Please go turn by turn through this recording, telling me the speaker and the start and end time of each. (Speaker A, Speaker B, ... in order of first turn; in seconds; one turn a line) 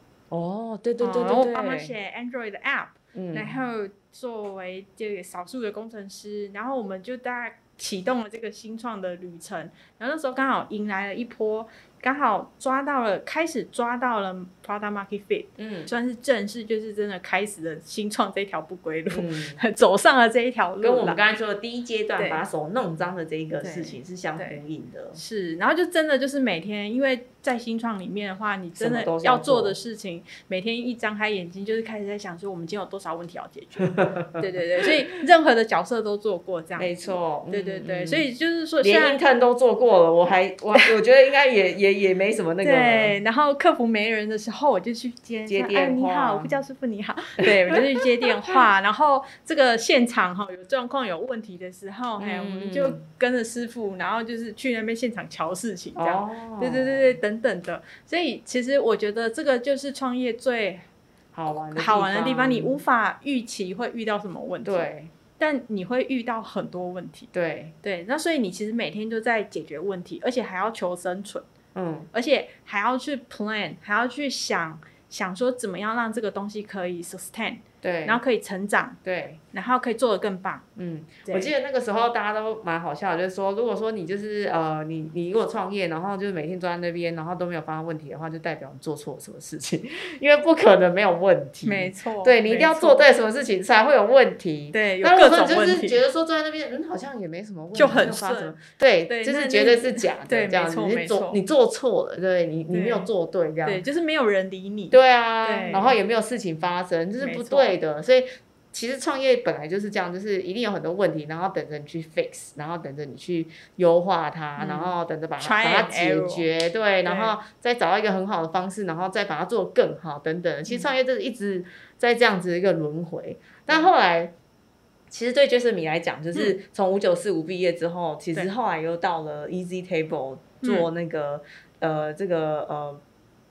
Speaker A: 0.3-1.9
Speaker B: 1.0-21.2
Speaker A: 3.1-3.5
Speaker A: 15.6-15.9
Speaker A: 19.1-19.6
Speaker A: 20.8-25.2
Speaker B: 22.2-22.4
Speaker B: 23.6-24.6
Speaker B: 25.1-39.2
Speaker A: 28.8-29.8
Speaker A: 34.0-34.3
Speaker A: 36.8-38.2
Speaker A: 38.8-43.1
Speaker B: 42.6-60.9
Speaker A: 45.5-46.5
Speaker A: 47.5-47.8
Speaker A: 52.2-53.0
Speaker A: 56.0-57.2
Speaker A: 61.3-62.8
Speaker B: 61.8-64.9
Speaker A: 64.7-65.1
Speaker B: 65.4-67.3
Speaker A: 67.3-67.8
Speaker B: 67.8-71.5
Speaker A: 71.8-72.1
Speaker B: 72.1-79.0
Speaker A: 77.8-78.2
Speaker A: 79.0-79.4
Speaker B: 79.5-80.7
Speaker A: 80.8-103.8
Speaker B: 81.2-81.5
Speaker B: 91.7-93.0
Speaker B: 94.7-96.0
Speaker B: 97.8-98.5
Speaker B: 99.1-101.4
Speaker B: 102.7-103.1
Speaker B: 103.7-106.0
Speaker A: 104.9-124.3
Speaker B: 107.2-107.8
Speaker B: 114.6-116.5
Speaker B: 117.0-117.3
Speaker A: 125.1-133.0
Speaker B: 130.6-130.9